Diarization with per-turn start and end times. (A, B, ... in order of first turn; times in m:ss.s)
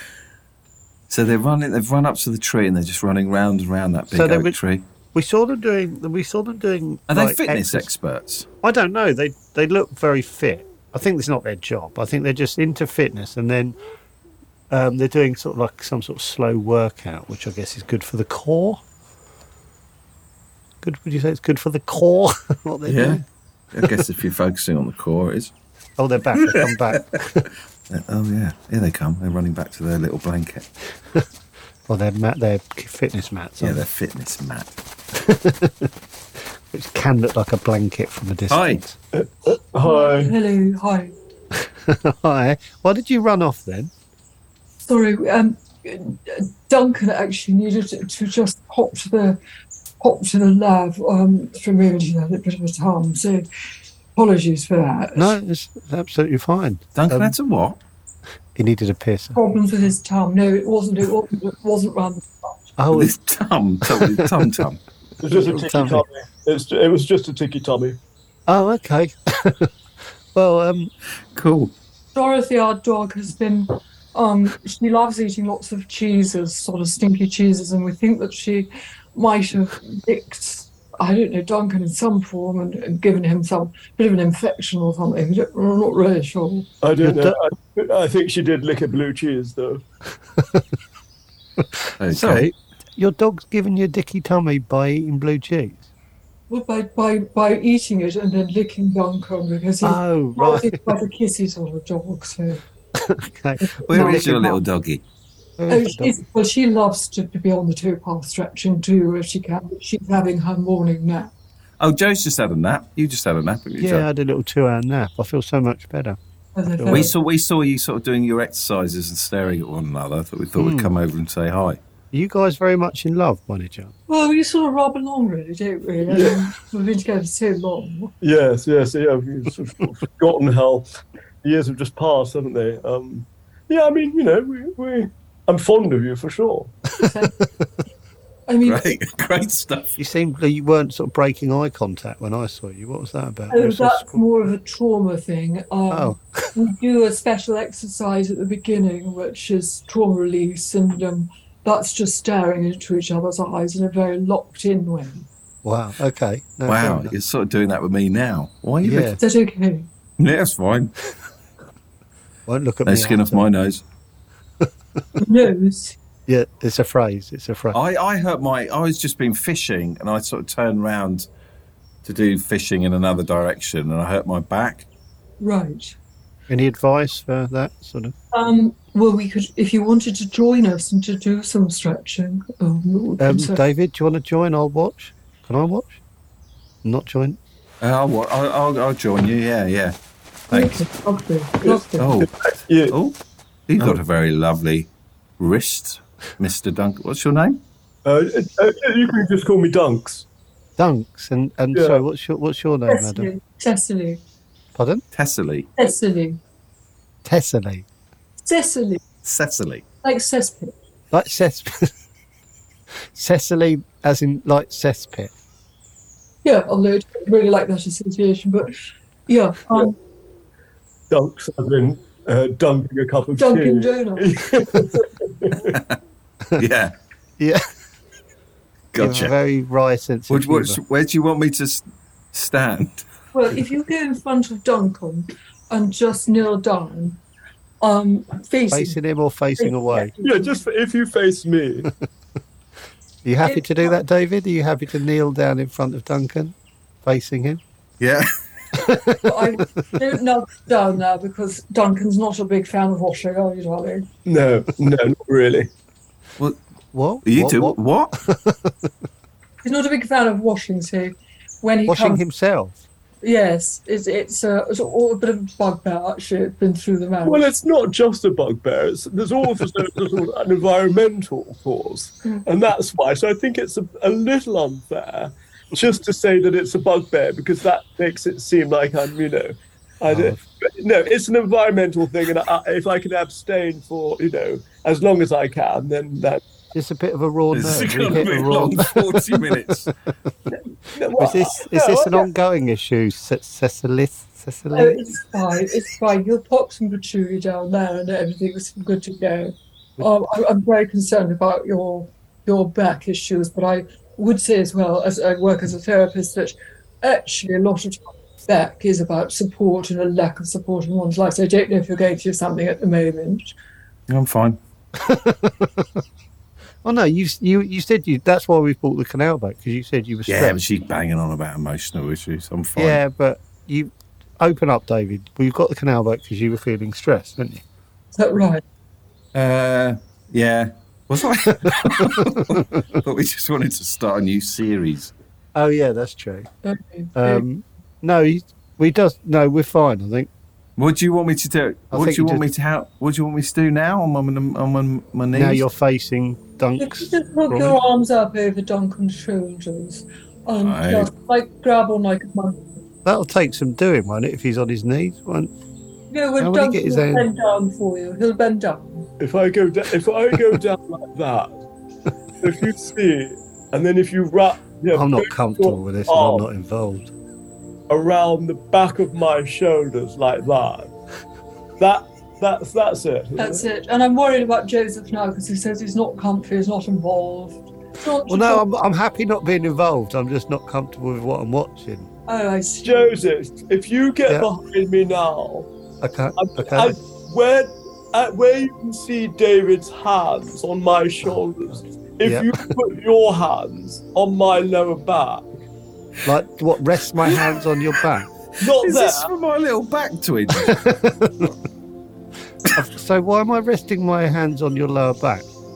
0:01.1-0:04.8 A
0:04.1-0:04.6 B
0:05.1-0:07.9 B
0:07.1-0:08.5 A
0:08.6-0:13.8 B
0:14.7-0:18.8 B
0:20.8-0:23.2 B
0:22.8-0:23.2 A
0:23.7-0:25.5 A
0:26.0-0:27.5 B
0:27.9-0:30.7 A
0:31.9-0:33.8 B
0:33.6-0:34.7 A
0:35.1-0:35.9 B
0:36.7-0:39.0 B
0:38.5-0:38.8 A
0:39.1-0:40.3 C
0:39.8-0:41.1 D
0:41.5-0:43.9 B
0:44.8-0:49.4 D
0:50.0-0:53.5 D
0:54.2-0:55.3 D
0:55.2-0:57.4 B
0:57.0-0:57.8 A
0:58.5-0:59.4 B
0:59.3-1:02.6 D
1:02.8-1:03.2 B
1:02.9-1:04.8 A
1:03.8-1:04.6 B
1:05.2-1:08.0 C
1:05.2-1:06.0 B
1:08.5-1:09.7 B
1:10.3-1:10.9 B
1:11.3-1:11.7 A
1:12.1-1:26.7 D
1:26.8-1:29.8 C
1:27.0-1:27.4 B
1:30.4-1:30.6 B
1:31.6-1:35.9 B
1:32.0-1:32.5 A
1:36.5-1:42.6 D
1:39.8-1:40.9 B
1:43.0-1:44.6 B
1:43.6-1:44.5 D
1:43.9-1:45.0 A
1:45.6-1:46.2 B
1:45.7-1:51.3 D
1:51.8-1:54.0 A
1:53.8-1:56.2 B
1:56.5-1:57.1 D
1:56.7-1:57.1 B
1:56.9-2:01.8 A
2:00.6-2:00.9 B
2:02.1-2:03.9 B
2:04.1-2:08.1 D
2:06.1-2:06.4 C
2:08.2-2:10.9 C
2:11.4-2:16.7 C
2:17.0-2:17.6 B
2:17.0-2:17.4 D
2:18.5-2:19.0 D
2:18.6-2:20.0 A
2:20.0-2:24.2 B
2:23.5-2:35.3 D
2:25.9-2:26.6 B
2:35.6-2:37.1 B
2:36.7-2:39.2 A
2:38.8-2:39.2 B
2:39.2-2:39.9 D
2:40.2-2:40.9 A
2:42.5-2:43.5 B
2:42.8-2:43.8 A
2:44.6-2:45.0 B
2:45.2-2:46.0 D
2:46.3-2:47.8 B
2:47.7-2:51.3 A
2:52.0-2:54.9 A
2:55.4-2:56.0 D
2:56.5-2:58.1 B
2:58.3-3:03.6 D
3:03.2-3:06.0 B
3:06.8-3:07.4 B
3:07.8-3:10.0 A
3:10.5-3:10.8 A
3:10.5-3:12.1 D
3:11.6-3:13.0 C
3:12.0-3:12.3 A
3:12.9-3:17.6 A
3:18.0-3:20.2 C
3:20.8-3:23.3 B
3:21.7-3:22.0 C
3:22.9-3:24.2 D
3:24.7-3:25.0 B
3:25.1-3:25.7 A
3:25.8-3:26.4 D
3:27.2-3:27.8 B
3:28.4-3:29.0 D
3:29.2-3:29.8 A
3:30.0-3:30.7 D
3:31.1-3:31.9 B
3:33.1-3:35.3 B
3:36.4-3:38.7 D
3:39.3-3:39.9 D
3:41.1-3:45.7 C
3:43.4-3:44.3 D
3:46.6-3:46.9 A
3:48.9-3:49.3 A
3:49.0-3:50.8 B
3:50.3-3:53.0 A
3:53.3-3:57.2 D
3:57.8-3:59.0 D
3:58.7-4:00.1 B
3:59.6-4:00.6 D
4:00.2-4:01.9 C
4:03.2-4:07.6 B
4:03.4-4:03.9 D
4:08.0-4:08.3 A
4:08.9-4:09.2 B
4:09.2-4:14.1 D
4:14.3-4:15.7 C
4:16.9-4:18.9 B
4:17.2-4:18.1 A
4:19.6-4:22.2 D
4:21.9-4:22.8 B
4:23.2-4:27.5 D
4:27.2-4:46.4 C
4:40.1-4:40.4 B
4:46.7-4:49.6 B
4:47.5-4:49.9 A
4:50.9-4:52.2 C
4:51.2-4:55.1 B
4:54.7-5:13.5 D
5:14.1-5:14.6 A
5:15.0-5:15.9 B
5:16.8-5:20.6 B
5:20.3-5:23.0 A
5:22.8-5:27.6 B
5:28.1-5:28.6 D
5:29.3-5:35.1 A
5:31.6-5:32.6 B
5:35.5-5:36.5 B
5:36.6-5:37.4 D
5:37.2-5:40.3 B
5:40.8-5:45.6 A
5:41.9-5:42.5 B
5:45.3-5:47.8 B
5:46.8-5:52.8 D
5:50.6-5:51.1 A
5:53.0-5:55.5 B
5:56.1-5:59.1 D
5:56.4-5:57.3 B
5:59.2-6:01.6 C
6:02.4-6:06.5 C
6:04.9-6:07.1 B
6:07.9-6:10.9 C
6:11.8-6:13.6 C
6:13.4-6:18.6 D
6:18.3-6:22.1 B
6:22.3-6:23.2 D
6:22.8-6:25.7 C
6:26.0-6:27.0 B
6:26.4-6:35.5 C
6:32.2-6:32.6 B
6:36.2-6:38.3 B
6:38.6-6:39.3 C
6:38.7-6:40.8 A
6:40.6-6:41.5 B
6:42.6-6:45.5 B